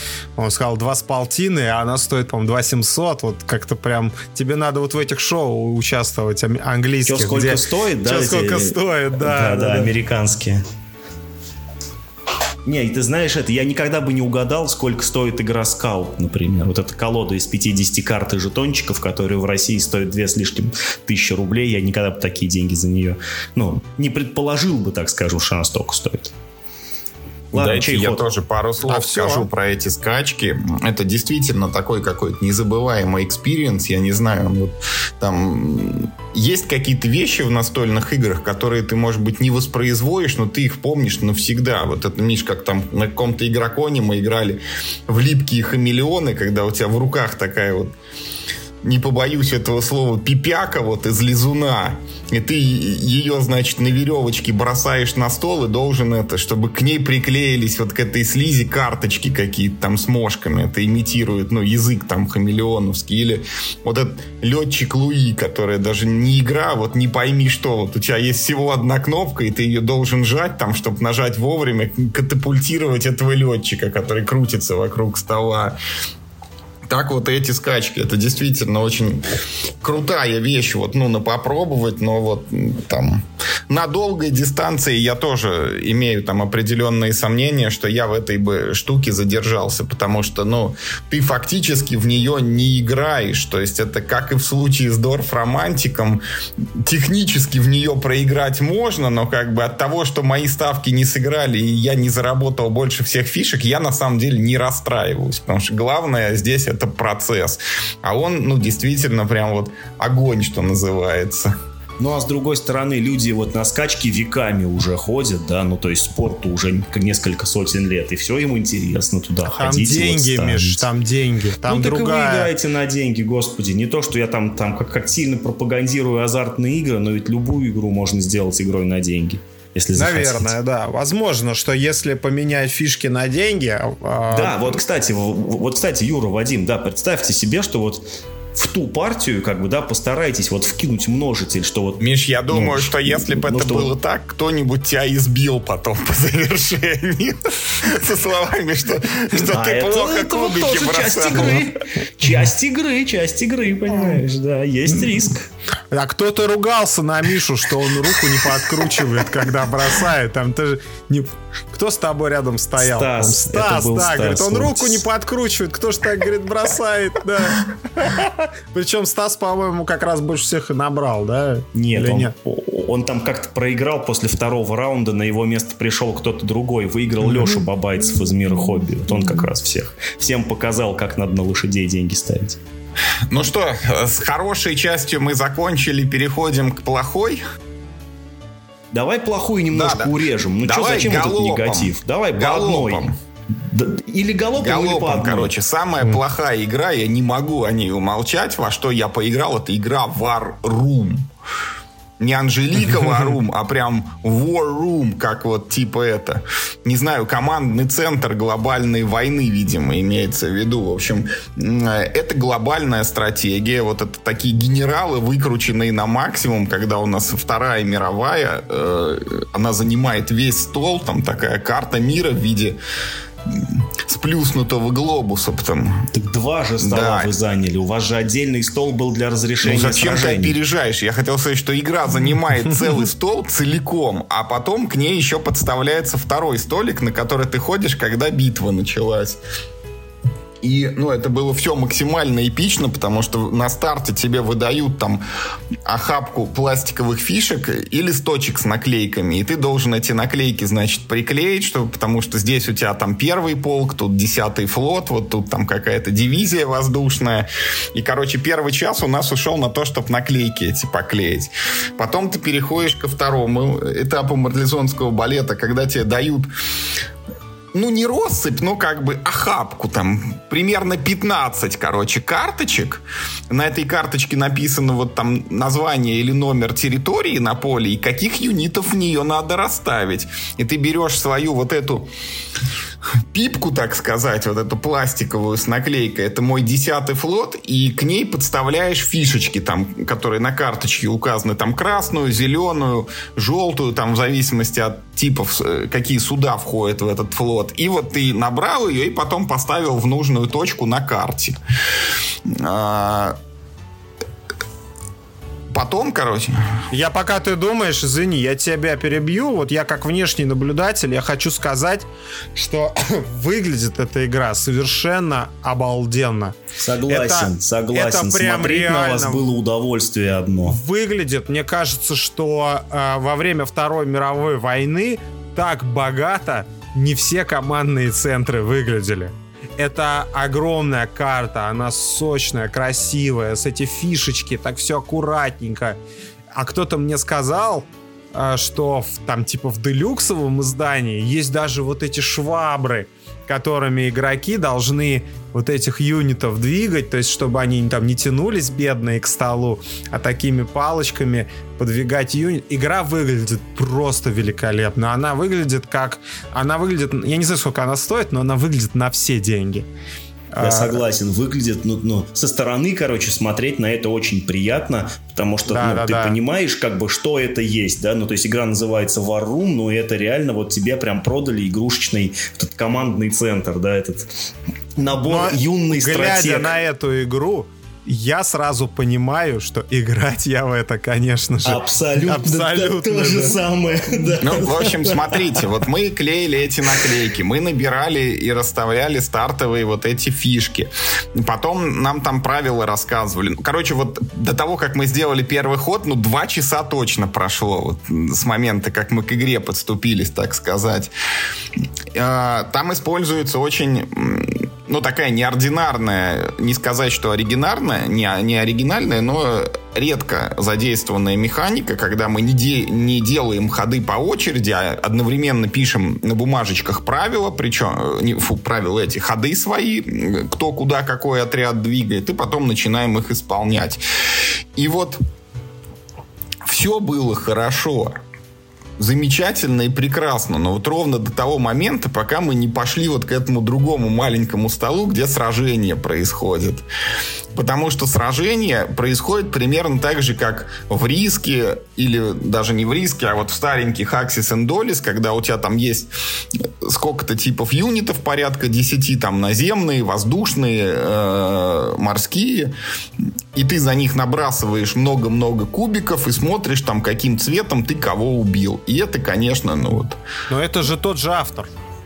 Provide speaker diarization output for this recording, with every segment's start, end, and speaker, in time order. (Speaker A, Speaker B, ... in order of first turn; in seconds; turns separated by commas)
Speaker A: 0.4-9.9, Speaker B: 7.0-10.6, Speaker B: 12.7-26.3, Speaker B: 27.5-28.3, Speaker C: 27.5-47.9, Speaker A: 28.9-29.5, Speaker C: 48.8-75.8, Speaker C: 76.9-79.2, Speaker C: 79.8-96.2, Speaker C: 96.8-111.5, Speaker B: 112.0-120.9, Speaker A: 119.5-122.5, Speaker B: 121.7-130.5, Speaker A: 130.0-134.8, Speaker B: 134.3-143.9, Speaker C: 142.0-151.7, Speaker B: 149.4-155.5, Speaker A: 155.9-172.3, Speaker B: 162.8-165.0, Speaker B: 171.8-182.6, Speaker A: 177.2-177.6, Speaker C: 183.3-187.4, Speaker B: 188.9-195.5, Speaker C: 189.7-193.1, Speaker C: 194.6-201.3, Speaker C: 202.2-222.8, Speaker C: 223.5-226.1, Speaker B: 226.1-230.6, Speaker C: 226.8-227.3, Speaker C: 229.6-239.4, Speaker C: 240.6-245.2, Speaker C: 245.9-266.5, Speaker C: 267.7-282.1, Speaker C: 283.3-301.6, Speaker C: 302.5-303.4, Speaker C: 305.7-306.6, Speaker A: 306.9-316.6, Speaker B: 316.8-320.8, Speaker A: 317.1-319.4, Speaker A: 320.7-336.0, Speaker A: 336.6-359.9, Speaker A: 360.5-361.0, Speaker B: 360.6-374.3, Speaker A: 365.7-366.4, Speaker B: 375.0-376.7, Speaker A: 375.3-383.6, Speaker B: 381.6-385.6, Speaker C: 384.4-401.1, Speaker C: 402.1-424.0, Speaker C: 424.8-425.2, Speaker C: 426.6-428.2, Speaker C: 429.0-436.9, Speaker C: 437.5-452.7, Speaker C: 453.5-460.2, Speaker A: 460.5-461.7